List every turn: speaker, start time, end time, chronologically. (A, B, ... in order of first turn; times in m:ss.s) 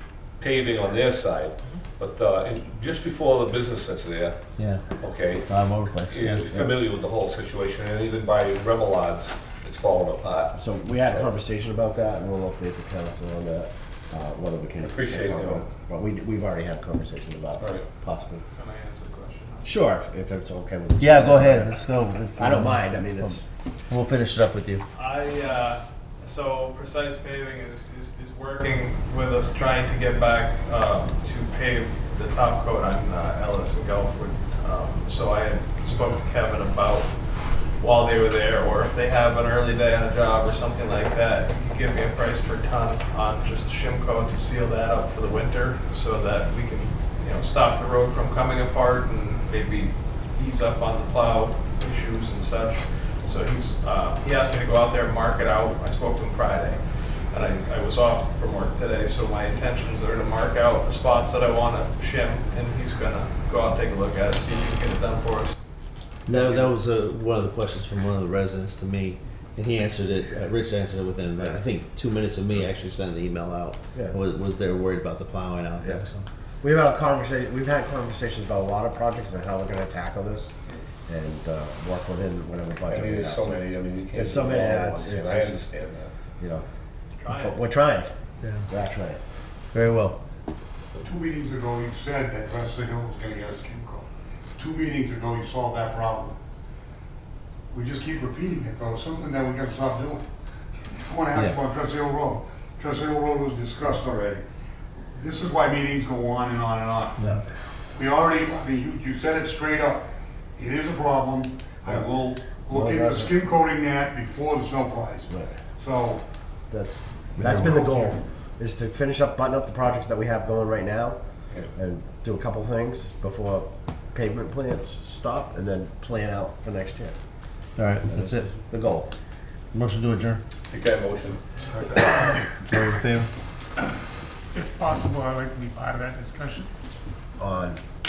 0:00.4-0:04.4 A
0:04.6-0:04.8 B
0:05.0-0:05.5 A
0:05.4-0:06.7 B
0:06.1-0:10.5 A
0:10.5-0:18.4 C
0:14.8-0:15.6 A
0:17.6-0:17.8 A
0:18.5-0:19.7 D
0:19.6-0:20.0 B
0:19.9-0:23.4 C
0:21.0-0:24.8 B
0:25.0-0:56.8 D
0:57.3-1:05.6 D
1:06.2-1:16.3 B
1:15.8-1:16.0 C
1:16.6-1:20.5 C
1:21.1-1:23.6 C
1:22.9-1:26.1 A
1:24.1-1:25.7 C
1:26.4-1:26.6 C
1:27.2-1:27.6 D
1:27.2-1:28.1 C
1:28.4-1:28.7 B
1:28.7-1:29.2 C
1:29.7-1:30.2 B
1:31.0-1:36.4 E
1:37.7-1:40.3 E
1:41.0-1:44.4 E
1:41.3-1:41.6 B
1:45.1-1:47.2 E
1:47.2-1:47.4 B
1:47.9-1:56.2 E
1:52.7-1:53.3 C
1:55.3-1:55.6 C
1:56.7-2:01.2 C
1:57.4-1:57.7 B
1:57.4-1:58.2 E
2:01.7-2:07.2 C
2:07.8-2:08.6 B
2:08.1-2:09.1 C
2:09.7-2:10.4 B
2:10.7-2:12.4 A
2:12.6-2:13.3 B
2:14.5-2:16.7 F
2:17.4-2:17.8 C